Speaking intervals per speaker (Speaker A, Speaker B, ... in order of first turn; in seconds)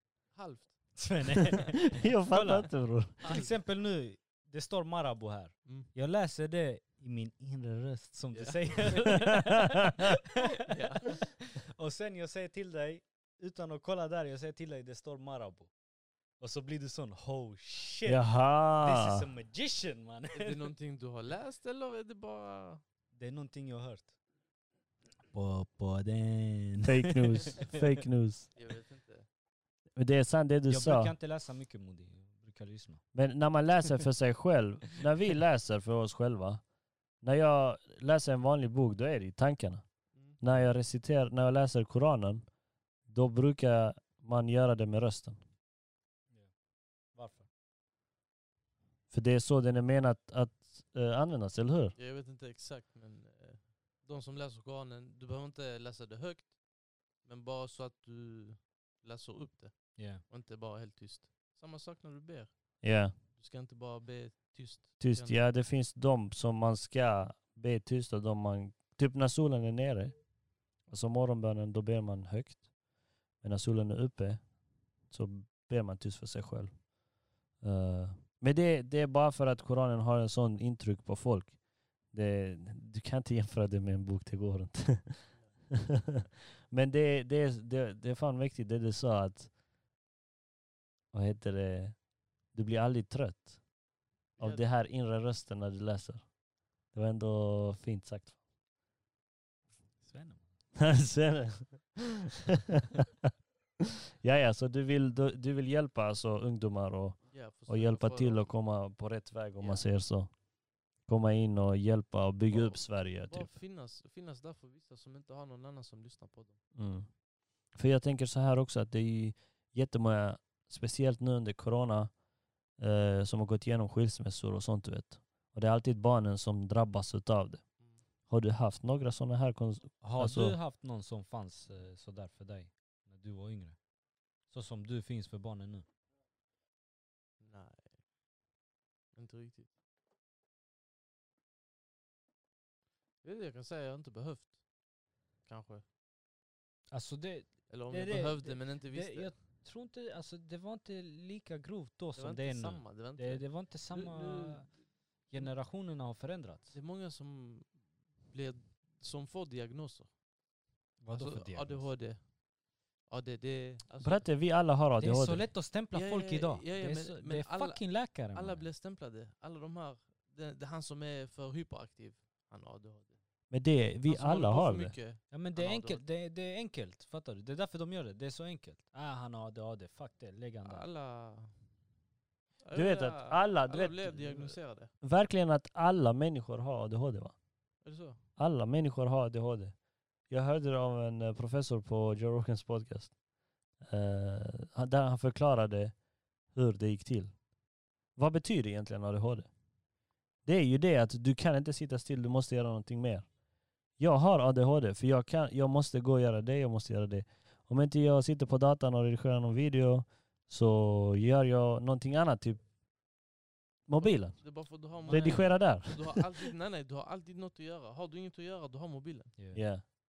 Speaker A: 0.3-0.9, 3.2-3.5, 5.7-5.9, 8.3-9.2, 10.6-11.2, 20.3-22.8, 28.5-29.3, 40.1-40.4, 51.9-65.4, 85.3-86.2, 94.4-94.7, 107.2-108.6, 109.6-109.9, 112.5-116.6, 127.8-128.0, 137.4-138.0, 139.1-139.7, 143.2-144.6, 145.4-145.8, 147.7-149.3, 152.1-155.5, 156.7-160.1, 161.1-162.4, 162.9-164.3, 165.9-173.2, 174.0-176.0, 180.6-181.6, 182.6-184.9, 187.8-188.2, 214.0-219.3
Speaker B: 0.9-10.4, 11.1-15.7, 16.4-20.6, 23.1-24.1, 25.3-28.0, 30.7-33.0, 47.1-47.5, 60.0-60.2, 100.0-100.5, 130.0-133.9, 134.4-135.8, 146.9-156.7, 161.0-161.9, 165.0-168.7, 175.3-180.9, 215.0-215.7, 219.4-219.6
Speaker C: 1.5-3.4, 9.2-9.8, 18.1-19.2, 26.8-28.5, 29.9-31.1, 33.1-36.6, 37.2-42.5, 43.0-45.4, 49.1-52.0, 62.8-63.1, 65.0-70.2, 70.8-72.8, 73.3-76.9, 77.6-86.1, 86.7-89.5, 91.1-93.6, 94.4-98.4, 100.7-102.1, 104.2-113.5, 116.7-122.2, 122.7-130.6, 164.0-165.5, 173.5-174.9, 182.7-187.3, 188.3-193.2, 193.8-197.5, 198.1-199.5, 200.4-203.3, 203.9-212.7, 213.8-216.2, 219.5-220.0